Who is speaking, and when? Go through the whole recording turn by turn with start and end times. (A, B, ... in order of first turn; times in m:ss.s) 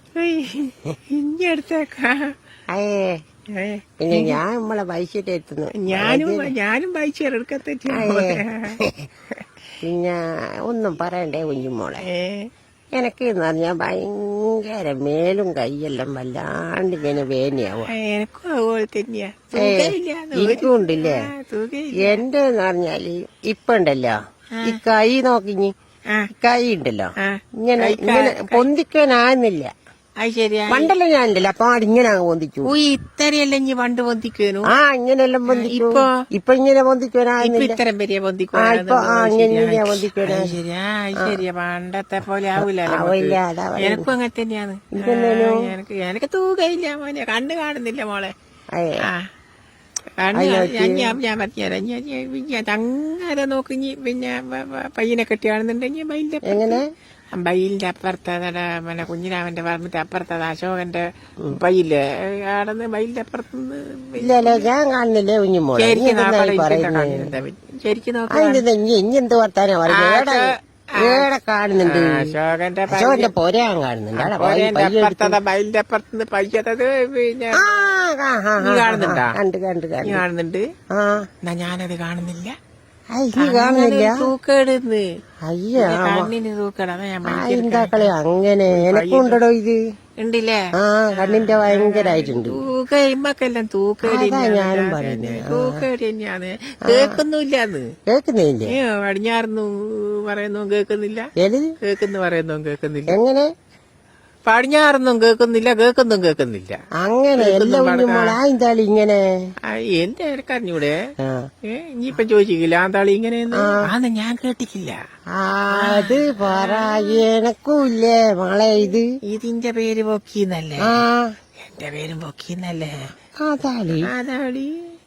0:00.2-0:02.3 A
0:02.7-0:03.2 B
0:03.5-0:04.4 A
0:04.0-0:06.5 B
0:05.8-0:08.8 A
0:07.9-0:09.1 B
0:09.8-0:12.1 B
0:12.0-0:12.5 A
0:13.0-0:17.9 B
0:17.9-0:22.2 A
0:19.6-0:21.2 B
0:22.0-0:25.7 B
0:26.4-0:27.1 B
0:27.2-0:28.7 A
0:27.6-0:29.7 B
0:30.2-0:30.9 A
0:30.7-0:32.7 B
0:32.6-0:34.7 A
0:34.7-0:37.8 B
0:35.5-0:36.1 A
0:37.4-0:48.3 A
0:38.6-0:40.6 B
0:42.6-0:44.1 B
0:45.0-0:45.6 B
0:48.7-0:49.0 B
0:50.2-0:56.8 A
0:50.4-0:51.1 B
0:56.5-0:56.8 B
0:57.3-1:04.7 A
1:04.2-1:07.3 B
1:05.8-1:08.6 A
1:08.3-1:12.2 B
1:09.9-1:11.3 A
1:11.8-1:13.3 A
1:12.9-1:15.4 B
1:14.2-1:17.7 A
1:17.6-1:20.2 B
1:18.6-1:19.4 A
1:20.0-1:20.7 A
1:20.9-1:21.3 B
1:21.4-1:22.6 A
1:23.1-1:24.3 B
1:23.4-1:25.0 A
1:25.5-1:26.3 B
1:25.8-1:28.1 A
1:27.3-1:29.8 B
1:28.7-1:29.4 A
1:30.2-1:30.6 A
1:30.8-1:32.6 B
1:31.1-1:37.9 A
1:34.0-1:35.8 B
1:36.9-1:37.2 B
1:38.1-1:38.7 B
1:38.7-1:41.3 A
1:41.4-1:41.7 B
1:41.8-1:43.2 A
1:43.1-1:43.5 B
1:44.5-1:46.8 A
1:47.0-1:49.2 B
1:47.4-1:48.4 A
1:49.7-1:51.0 A
1:51.2-1:51.5 B
1:51.7-1:55.0 A
1:53.6-1:53.8 B
1:55.4-1:59.1 B
1:55.7-1:57.2 A
1:59.3-2:01.0 A
2:00.8-2:01.3 B
2:01.6-2:03.1 A
2:03.4-2:04.1 B
2:04.0-2:04.7 A